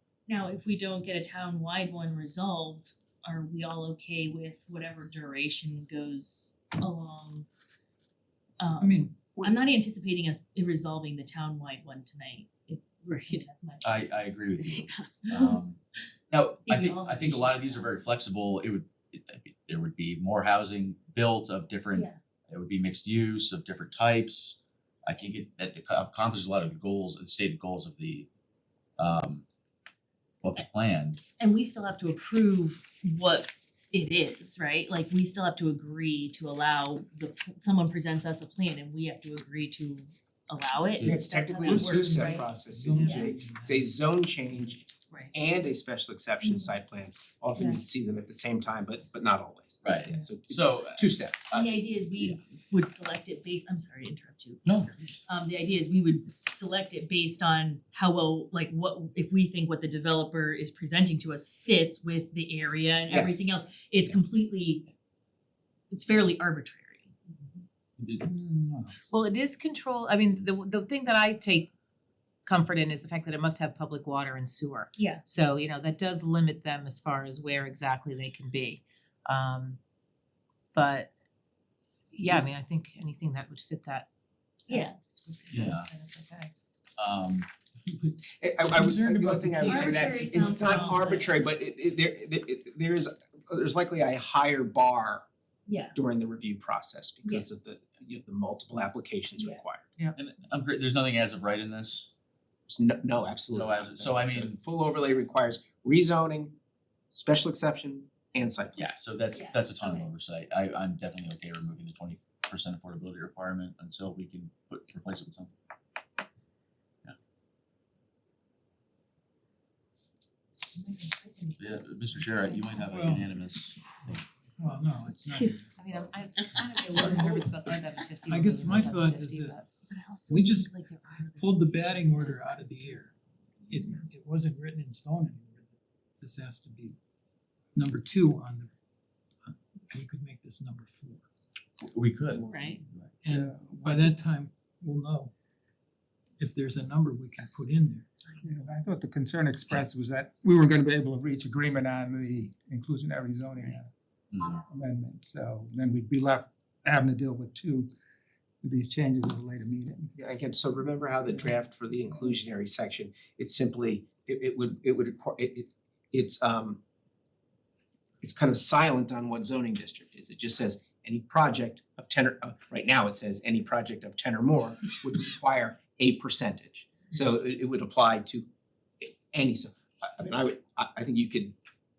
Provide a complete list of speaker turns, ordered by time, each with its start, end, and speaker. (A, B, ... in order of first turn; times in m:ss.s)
0:00.3-0:07.5 A
0:08.6-0:14.0 A
0:08.8-0:09.6 B
0:13.8-0:15.8 C
0:14.6-0:15.6 A
0:16.3-0:28.3 C
0:16.7-0:17.9 A
0:29.0-0:29.4 C
0:30.4-0:31.2 C
0:31.4-0:42.5 A
0:41.0-0:51.6 D
0:41.1-0:41.8 E
0:41.6-0:43.9 B
0:43.0-0:43.3 A
0:47.5-0:47.8 E
0:49.8-0:51.7 C
0:51.5-1:04.9 A
0:54.6-0:54.9 C
1:03.1-1:03.4 D
1:05.9-1:07.2 A
1:08.0-1:08.2 C
1:08.2-1:09.0 B
1:09.1-1:11.7 E
1:12.4-1:19.8 E
1:15.0-1:15.2 A
1:20.7-1:21.1 E
1:22.1-1:24.1 E
1:24.6-1:26.5 E
1:24.7-1:24.9 A
1:25.5-1:25.9 C
1:27.0-1:27.5 C
1:27.8-1:31.1 B
1:28.3-1:35.2 D
1:29.6-1:31.3 A
1:35.6-1:36.0 A
1:35.9-1:39.8 D
1:37.2-1:37.6 A
1:39.4-1:39.6 A
1:40.1-1:42.1 C
1:42.7-1:46.5 D
1:43.5-1:44.6 C
1:47.1-1:48.8 D
1:48.8-1:55.5 C
1:49.3-1:50.1 A
2:00.7-2:02.8 E
2:01.6-2:04.2 C
2:02.9-2:03.3 B
2:04.6-2:05.7 B
2:05.8-2:09.6 E
2:07.0-2:07.5 B
2:08.2-2:09.6 B
2:09.9-2:12.6 A
2:10.3-2:10.7 B
2:11.4-2:13.1 B
2:13.7-2:17.0 B
2:17.8-2:18.7 B
2:19.4-2:21.2 B
2:21.8-2:22.4 C
2:22.5-2:22.8 A
2:23.2-2:25.3 B
2:23.3-2:24.2 F
2:26.4-2:28.1 B
2:28.4-2:33.9 F
2:34.3-2:34.6 C
2:34.6-2:37.9 F
2:38.6-2:40.1 F
2:40.2-2:46.8 D
2:48.2-2:58.5 D
2:59.0-3:01.5 D